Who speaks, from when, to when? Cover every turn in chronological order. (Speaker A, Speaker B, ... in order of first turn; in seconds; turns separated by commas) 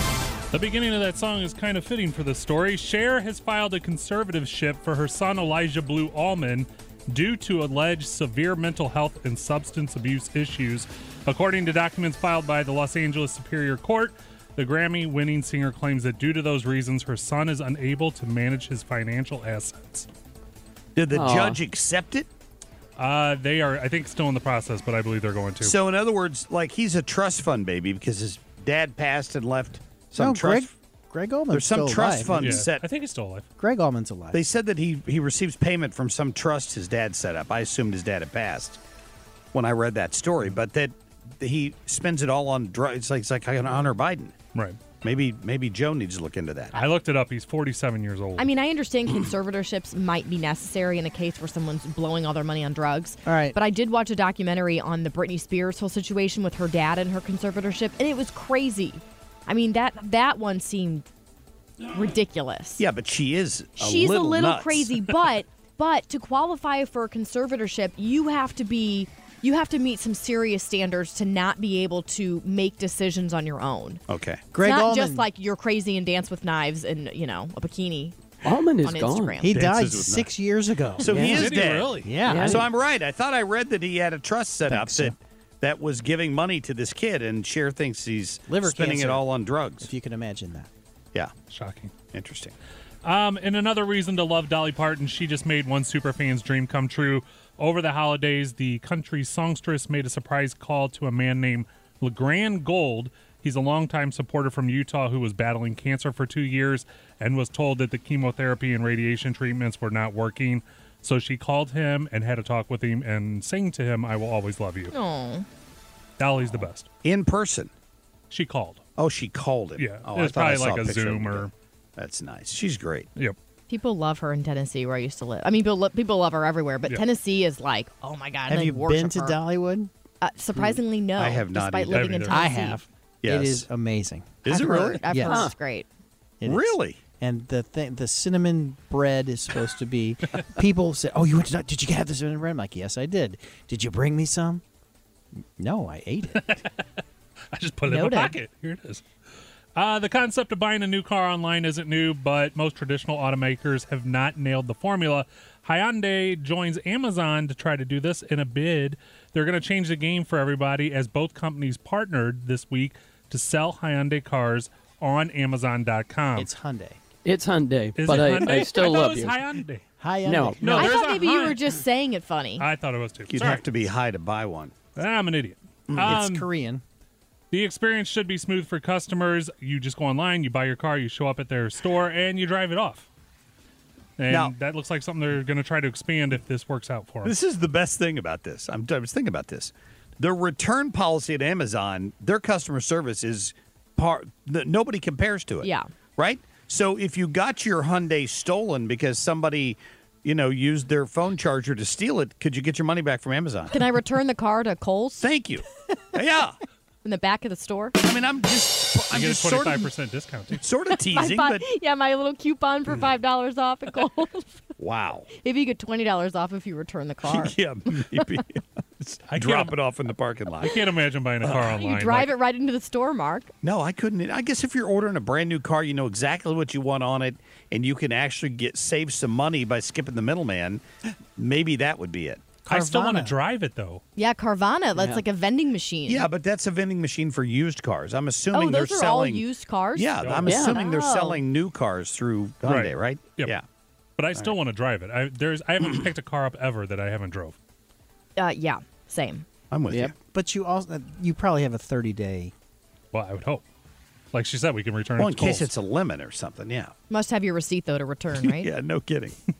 Speaker A: 0.5-20.1, Speaker B: 20.9-22.3, Speaker C: 21.1-21.6, Speaker A: 23.0-25.8, Speaker B: 25.6-30.7, Speaker D: 30.2-32.6, Speaker B: 31.5-32.8, Speaker A: 32.4-33.5, Speaker D: 33.6-34.4, Speaker B: 34.3-38.8, Speaker B: 39.5-44.4, Speaker A: 44.5-44.8, Speaker B: 45.0-46.8, Speaker A: 46.7-48.5, Speaker E: 48.4-61.1, Speaker D: 53.3-53.6, Speaker E: 61.9-62.8, Speaker B: 62.8-65.0, Speaker E: 63.8-74.0, Speaker B: 74.1-74.5, Speaker D: 74.5-75.3, Speaker E: 74.6-78.2, Speaker C: 78.4-79.4, Speaker E: 78.8-79.5, Speaker D: 79.4-82.6, Speaker B: 79.5-80.3, Speaker B: 81.0-89.9, Speaker C: 81.1-81.5, Speaker A: 81.2-82.2, Speaker C: 82.2-82.6, Speaker D: 84.7-85.2, Speaker D: 88.5-89.3, Speaker D: 89.8-90.7, Speaker A: 91.5-91.9, Speaker B: 92.1-92.5, Speaker A: 93.0-114.9, Speaker E: 114.9-115.5, Speaker A: 116.2-116.9, Speaker B: 117.0-117.7, Speaker A: 118.3-118.8, Speaker B: 119.0-123.1, Speaker A: 119.8-121.5, Speaker E: 123.7-129.4, Speaker D: 128.5-129.9, Speaker E: 130.2-132.8, Speaker B: 131.2-132.2, Speaker A: 131.9-132.4, Speaker D: 132.3-135.4, Speaker B: 133.2-133.7, Speaker B: 134.4-135.0, Speaker E: 134.5-135.9, Speaker C: 135.3-135.5, Speaker D: 136.4-144.6, Speaker B: 136.4-137.0, Speaker D: 145.4-146.6, Speaker A: 147.5-149.0, Speaker E: 147.9-148.4, Speaker A: 149.8-166.5, Speaker D: 166.4-167.0, Speaker C: 167.2-169.4, Speaker A: 168.0-169.9, Speaker D: 170.0-171.0, Speaker C: 170.2-170.6, Speaker A: 170.6-171.6, Speaker E: 170.8-172.7, Speaker A: 172.6-173.7, Speaker B: 173.3-174.9, Speaker A: 175.0-176.5, Speaker B: 175.9-176.2, Speaker D: 176.0-176.8, Speaker A: 177.5-183.1, Speaker A: 184.2-187.3, Speaker B: 187.2-203.8, Speaker E: 195.6-195.9, Speaker E: 203.7-205.3, Speaker B: 205.2-206.6, Speaker E: 207.0-207.9, Speaker B: 208.0-209.9, Speaker A: 209.1-210.6, Speaker B: 210.6-211.6, Speaker E: 211.1-214.5, Speaker B: 214.8-215.3, Speaker E: 215.4-217.6, Speaker B: 217.2-220.7, Speaker A: 219.3-219.7, Speaker A: 220.6-222.3, Speaker E: 221.6-223.5, Speaker B: 223.6-230.8, Speaker B: 231.4-232.6, Speaker D: 232.7-233.4, Speaker A: 232.7-234.0, Speaker E: 234.2-236.3, Speaker C: 234.9-235.2, Speaker B: 236.1-243.6, Speaker E: 238.5-241.4, Speaker A: 240.2-240.6, Speaker C: 240.4-240.8, Speaker A: 242.6-243.6, Speaker A: 244.2-247.6, Speaker E: 248.4-249.4, Speaker B: 249.7-250.2, Speaker D: 250.3-252.5, Speaker A: 253.1-253.6, Speaker A: 254.3-255.7, Speaker B: 255.2-256.9, Speaker E: 257.1-258.7, Speaker B: 258.4-259.4